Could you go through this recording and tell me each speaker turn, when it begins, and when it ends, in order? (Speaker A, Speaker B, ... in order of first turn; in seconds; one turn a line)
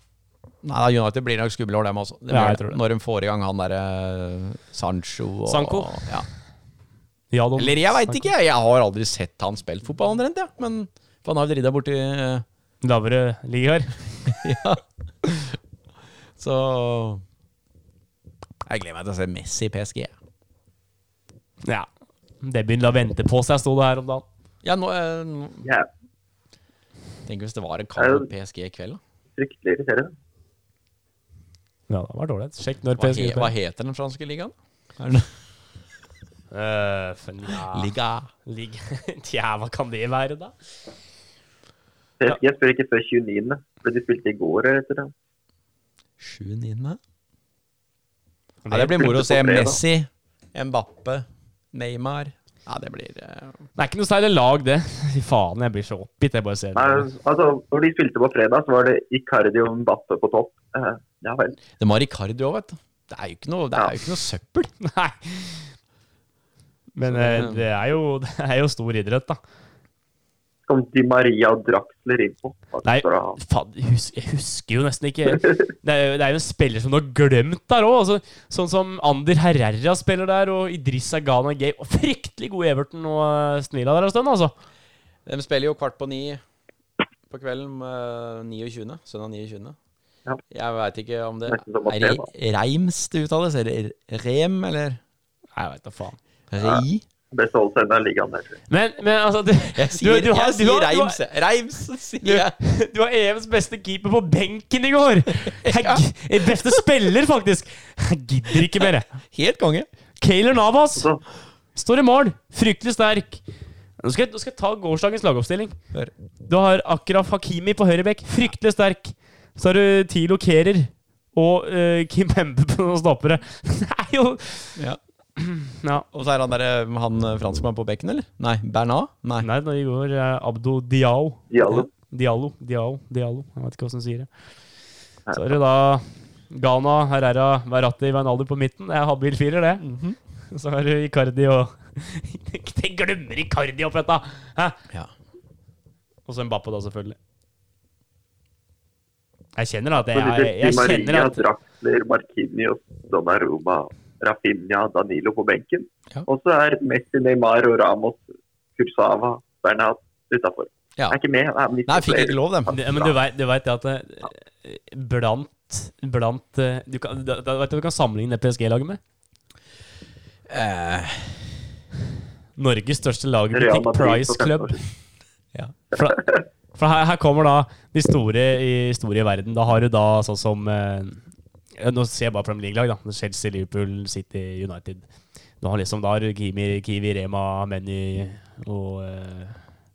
Speaker A: 0.6-6.3
Speaker B: 2.3-2.8
Speaker B: 5.5-6.2
Speaker B: 7.3-8.3
Speaker A: 7.6-12.4
Speaker B: 12.8-14.3
Speaker A: 14.3-15.6
Speaker A: 16.4-17.2
Speaker A: 18.7-20.1
Speaker B: 22.4-24.2
Speaker A: 24.6-25.6
Speaker A: 27.3-29.0
Speaker C: 28.0-28.3
Speaker C: 29.4-30.1
Speaker B: 31.9-33.5
Speaker A: 33.0-35.3
Speaker B: 36.5-37.9
Speaker A: 37.5-38.3
Speaker B: 38.5-40.5
Speaker C: 42.2-45.1
Speaker A: 46.2-47.0
Speaker B: 48.6-49.1
Speaker A: 48.7-53.6
Speaker C: 49.0-49.8
Speaker B: 53.8-57.1
Speaker C: 56.8-61.6
Speaker A: 61.8-64.7
Speaker B: 64.8-65.7
Speaker B: 67.0-69.4
Speaker A: 67.0-67.6
Speaker C: 70.7-73.4
Speaker B: 72.8-84.5
Speaker A: 85.3-86.4
Speaker A: 87.3-89.8
Speaker A: 90.5-95.0
Speaker C: 91.5-92.3
Speaker B: 95.6-96.2
Speaker A: 96.5-97.0
Speaker C: 96.6-98.6
Speaker B: 98.7-101.2
Speaker A: 99.8-102.5
Speaker B: 102.2-109.1
Speaker A: 105.5-106.8
Speaker A: 108.8-109.9
Speaker B: 110.2-111.1
Speaker C: 111.0-111.2
Speaker B: 111.8-113.4
Speaker B: 114.0-115.8
Speaker B: 116.5-124.8
Speaker B: 125.4-126.1
Speaker A: 126.1-129.5
Speaker B: 129.4-134.3
Speaker C: 131.5-131.9
Speaker C: 135.3-135.6
Speaker B: 135.3-139.8
Speaker A: 139.8-140.2
Speaker B: 140.5-144.8
Speaker B: 146.3-147.2
Speaker B: 149.6-151.4
Speaker C: 150.1-158.2
Speaker C: 158.8-163.2
Speaker A: 161.9-162.7
Speaker B: 162.7-169.0
Speaker A: 170.5-171.5
Speaker B: 172.6-174.8
Speaker C: 173.5-174.8
Speaker B: 175.9-181.2
Speaker C: 176.0-176.3
Speaker B: 181.8-185.1
Speaker B: 185.6-189.6